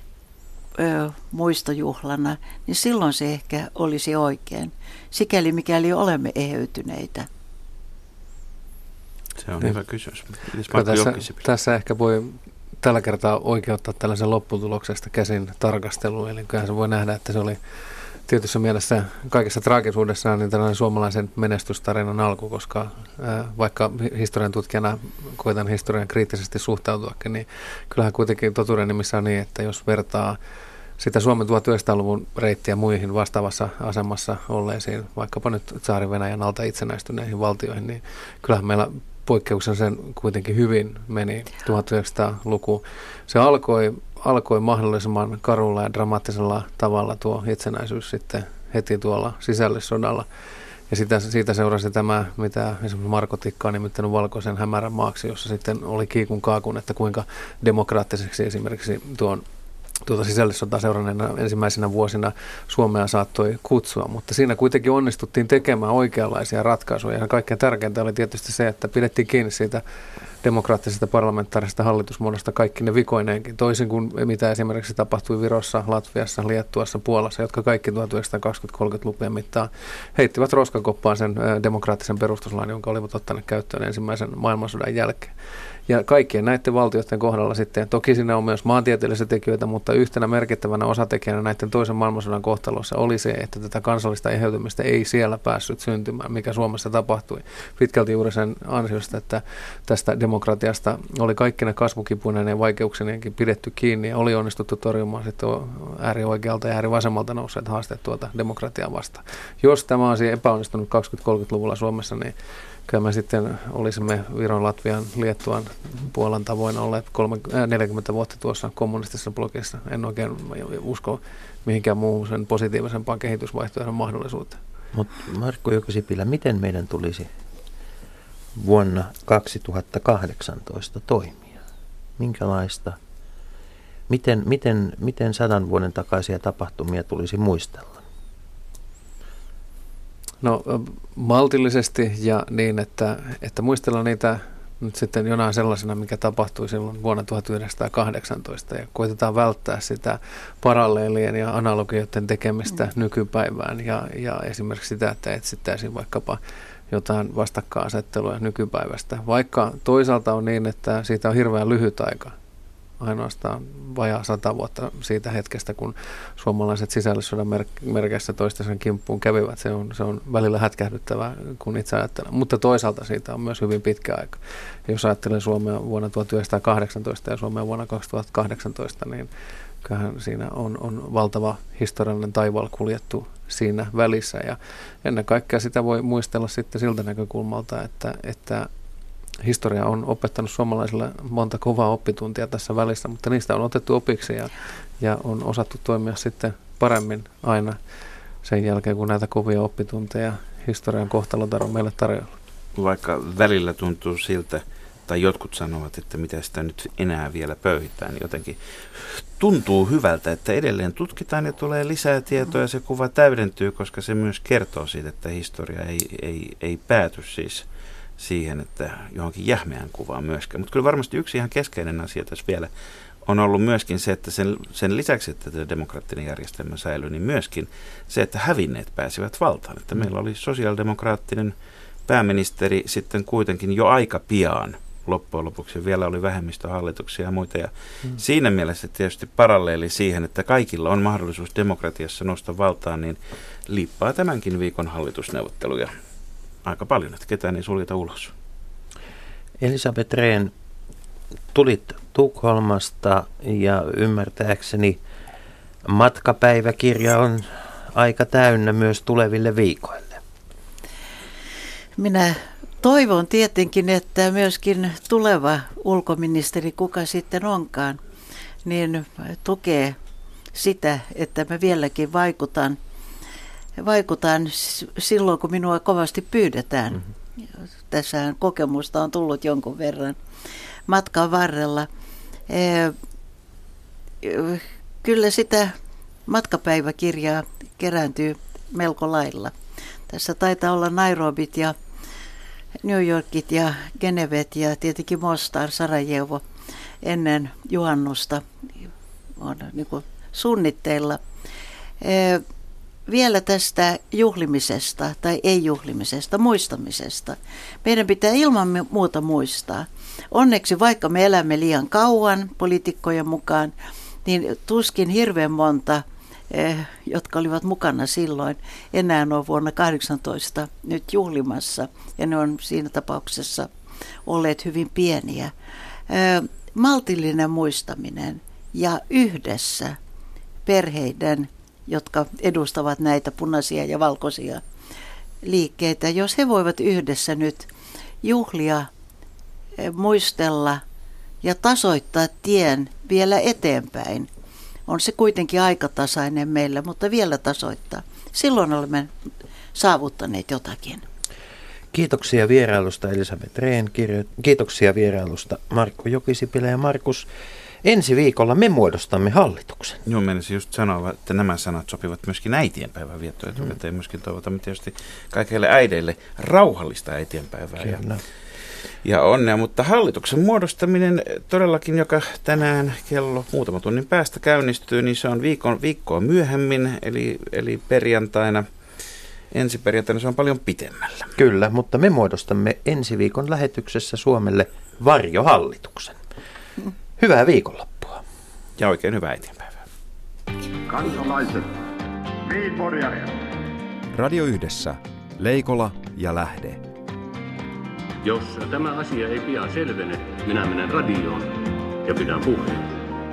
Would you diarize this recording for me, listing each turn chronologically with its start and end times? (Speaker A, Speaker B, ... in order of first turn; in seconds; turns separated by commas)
Speaker A: 0.8-7.3, Speaker B: 9.4-11.4, Speaker C: 10.7-17.6, Speaker C: 18.3-30.4, Speaker C: 31.0-50.3, Speaker C: 50.9-59.4, Speaker C: 60.0-69.8, Speaker C: 70.4-85.3, Speaker C: 85.9-112.3, Speaker C: 112.9-124.6, Speaker D: 124.9-127.3, Speaker D: 128.5-131.6, Speaker D: 132.2-133.0, Speaker D: 134.1-138.0, Speaker C: 140.4-156.4, Speaker C: 156.9-162.3, Speaker C: 163.0-179.3, Speaker C: 179.8-188.7, Speaker C: 189.4-197.8, Speaker C: 198.4-202.3, Speaker B: 202.7-217.7, Speaker B: 218.2-222.7, Speaker B: 223.2-231.5, Speaker B: 232.1-245.9, Speaker B: 246.6-248.3, Speaker D: 249.6-250.5, Speaker D: 251.5-255.0, Speaker D: 255.8-260.2, Speaker A: 262.0-268.0, Speaker A: 268.6-269.9, Speaker A: 270.5-272.8, Speaker A: 273.8-277.0, Speaker A: 277.9-280.2, Speaker A: 280.9-281.9, Speaker A: 282.5-282.9, Speaker A: 284.2-285.7, Speaker A: 286.3-289.5, Speaker A: 290.1-291.8, Speaker A: 292.8-296.4, Speaker A: 297.0-298.4, Speaker A: 299.4-301.2, Speaker A: 302.0-302.4, Speaker A: 303.1-313.7, Speaker A: 314.2-323.7, Speaker A: 324.2-325.5, Speaker A: 326.1-330.0, Speaker A: 330.6-334.6, Speaker A: 335.4-337.7, Speaker A: 338.2-338.9, Speaker A: 339.8-340.8, Speaker A: 341.4-344.3, Speaker A: 344.9-349.1, Speaker A: 349.7-351.0, Speaker D: 351.9-357.3, Speaker D: 357.8-360.0, Speaker B: 360.1-368.2, Speaker B: 369.0-378.6, Speaker B: 379.5-381.3, Speaker D: 381.4-386.2, Speaker D: 387.2-388.2, Speaker B: 388.8-389.8, Speaker E: 390.9-391.7, Speaker E: 392.4-393.5, Speaker F: 394.1-396.8, Speaker G: 398.2-402.9